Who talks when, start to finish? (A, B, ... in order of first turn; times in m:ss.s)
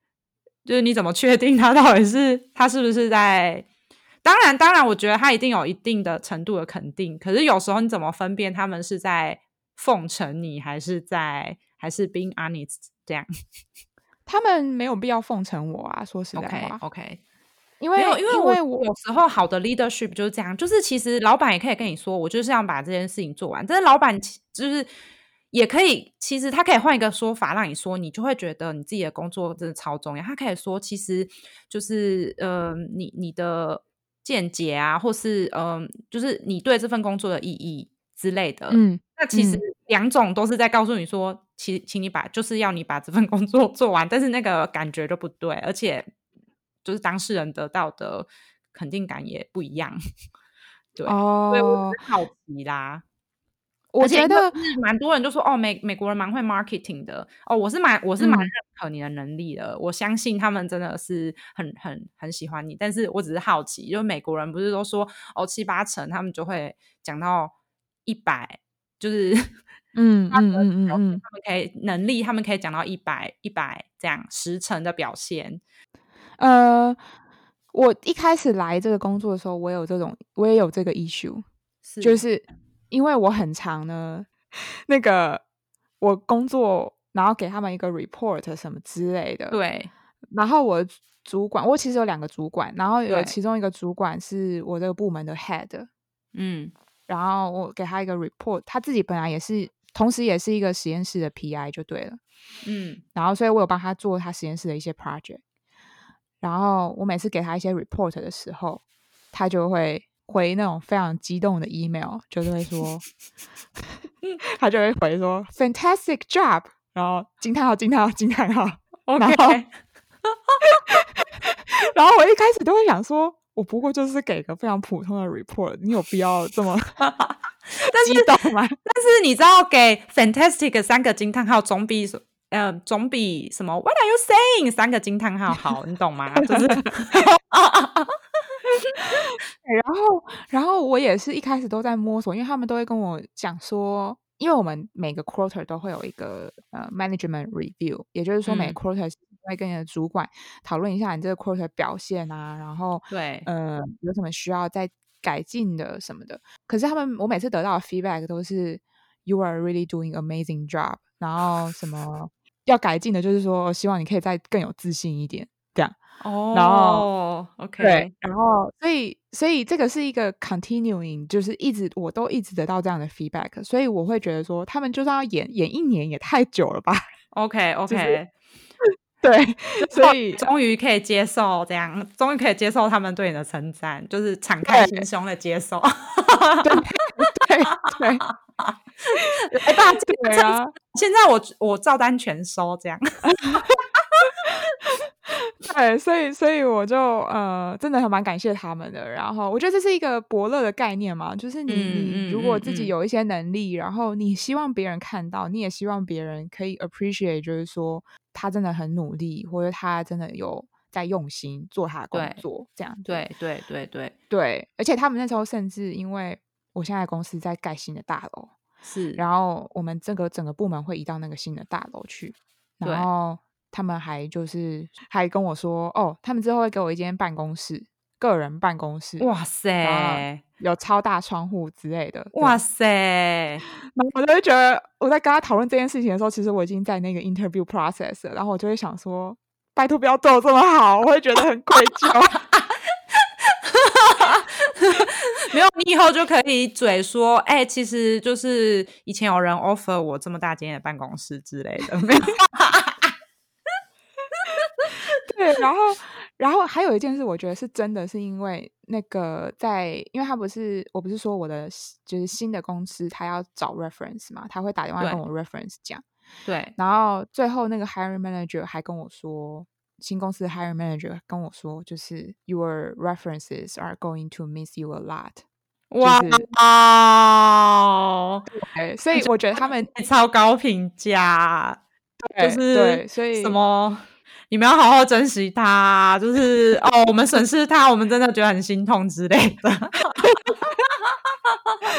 0:00.6-0:03.7 A
0:04.2-0:13.3 A
0:14.3-0:16.8 B
0:16.3-0:17.2 A
0:17.8-0:18.9 B
0:18.0-0:24.9 A
0:25.5-0:46.1 A
0:38.7-0:39.6 B
0:46.8-0:50.0 A
0:51.0-0:53.0 A
0:51.0-0:52.0 B
0:53.9-0:54.6 B
0:54.0-1:07.5 A
0:58.2-0:58.5 B
1:08.1-1:09.5 A
1:10.0-1:11.2 B
1:10.3-1:15.6 A
1:16.4-1:17.0 B
1:17.7-1:21.4 B
1:21.8-1:22.2 A
1:22.0-1:24.3 B
1:24.9-1:25.4 B
1:26.0-1:29.6 B
1:29.5-1:29.9 A
1:30.3-1:35.9 B
1:33.1-1:33.4 A
1:36.4-1:36.7 A
1:37.1-1:42.2 B
1:42.7-1:43.0 A
1:43.2-1:45.4 B
1:46.4-1:53.0 B
1:54.6-1:59.6 B
1:59.1-1:59.7 A
2:00.9-2:07.1 B
2:07.1-2:08.3 A
2:07.9-2:08.8 B
2:08.8-2:18.1 A
2:19.2-2:46.0 B
2:28.5-2:28.8 A
2:33.1-2:33.5 A
2:46.2-2:48.1 A
2:46.5-2:47.1 B
2:47.8-2:57.1 B
2:57.3-2:58.3 A
2:57.9-2:58.2 B
2:59.2-3:00.4 B
2:59.8-3:06.8 A
3:04.7-3:05.0 B
3:06.6-3:08.2 B
3:07.9-3:08.7 A
3:09.2-3:10.7 B
3:09.5-3:13.6 A
3:13.2-3:13.7 B
3:15.5-3:33.3 B
3:21.7-3:22.9 A
3:32.1-3:32.4 A
3:33.0-3:34.1 A
3:34.3-3:38.5 B
3:38.8-3:39.2 A
3:39.2-3:49.3 B
3:49.2-3:50.4 A
3:49.8-3:52.6 B
3:52.3-3:53.6 A
3:53.8-4:02.4 B
4:03.7-4:13.1 A
4:14.4-4:15.0 A
4:15.3-4:26.0 B
4:26.5-4:26.8 A
4:26.8-4:35.4 B
4:35.9-4:38.4 A
4:36.0-4:36.5 B
4:38.5-4:39.9 B
4:39.1-4:41.8 A
4:42.2-4:43.6 B
4:42.4-4:50.8 A
4:50.2-4:50.6 B